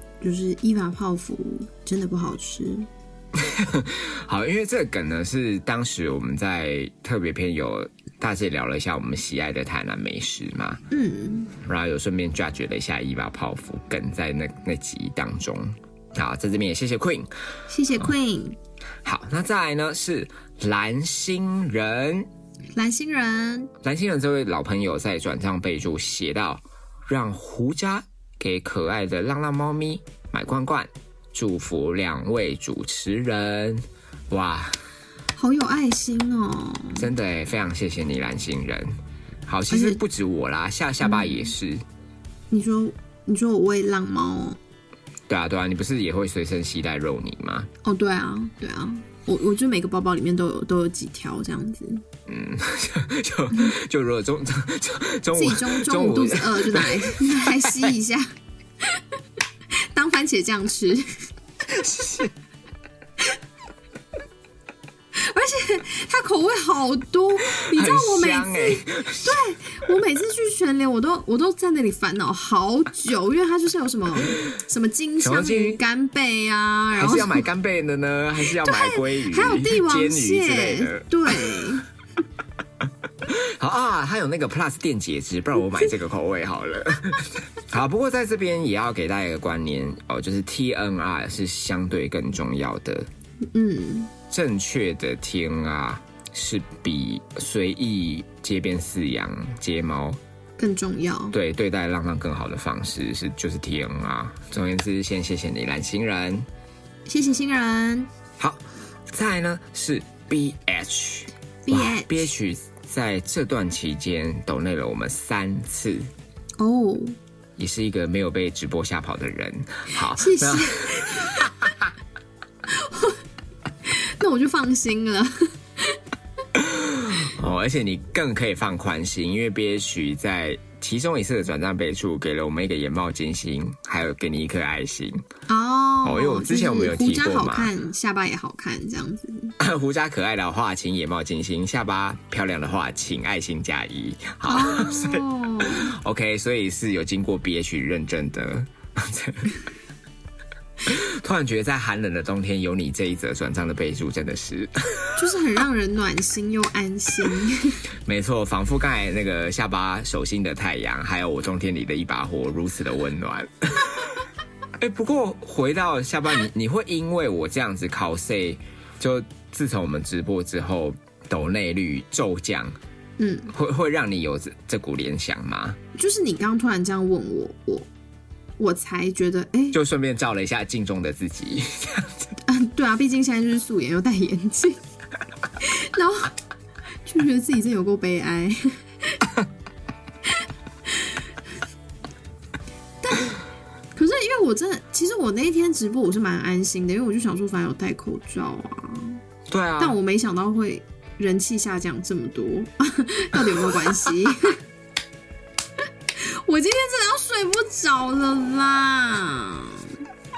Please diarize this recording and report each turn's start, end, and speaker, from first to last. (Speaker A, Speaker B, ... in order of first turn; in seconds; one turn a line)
Speaker A: 0.2-2.9
Speaker B: 3.4-10.8
Speaker A: 10.9-11.6
Speaker B: 11.6-17.3
Speaker A: 17.7-18.6
Speaker B: 19.0-22.3
Speaker A: 22.8-23.7
Speaker B: 23.8-34.8
Speaker A: 35.4-37.1
Speaker B: 37.0-38.9
Speaker B: 39.5-41.8
Speaker A: 39.7-40.0
Speaker A: 41.0-41.5
Speaker A: 42.5-44.6
Speaker B: 45.3-47.7
Speaker A: 47.8-52.0
Speaker B: 52.3-57.9
Speaker A: 55.4-59.0
Speaker A: 59.8-61.2
Speaker B: 61.7-62.3
Speaker A: 65.1-77.5
Speaker B: 67.5-69.4
Speaker B: 75.2-75.8
Speaker B: 76.9-81.7
Speaker A: 78.5-81.9
Speaker B: 83.2-93.1
Speaker A: 93.5-94.1
Speaker B: 94.3-100.2
Speaker A: 100.6-101.4
Speaker B: 101.3-106.5
Speaker A: 107.1-108.1
Speaker B: 108.4-116.1
Speaker A: 111.6-112.3
Speaker A: 116.6-117.2
Speaker B: 117.6-121.7
Speaker A: 120.1-121.5
Speaker A: 122.7-123.2
Speaker A: 123.9-126.0
Speaker B: 126.5-135.2
Speaker A: 135.5-139.6
Speaker B: 136.0-137.7
Speaker B: 139.6-149.6
Speaker A: 144.5-145.9
Speaker B: 150.8-155.1
Speaker A: 155.2-157.8
Speaker B: 158.1-164.2
Speaker B: 164.8-172.8
Speaker A: 173.2-173.5
Speaker B: 173.5-175.8
Speaker A: 175.9-177.9
Speaker A: 178.6-179.8
Speaker B: 179.7-182.3
Speaker A: 182.5-184.8
Speaker A: 185.6-186.3
Speaker A: 187.1-189.3
Speaker A: 193.0-193.4
Speaker A: 193.9-199.2
Speaker B: 199.5-200.0
Speaker A: 199.8-204.6
Speaker A: 206.1-209.9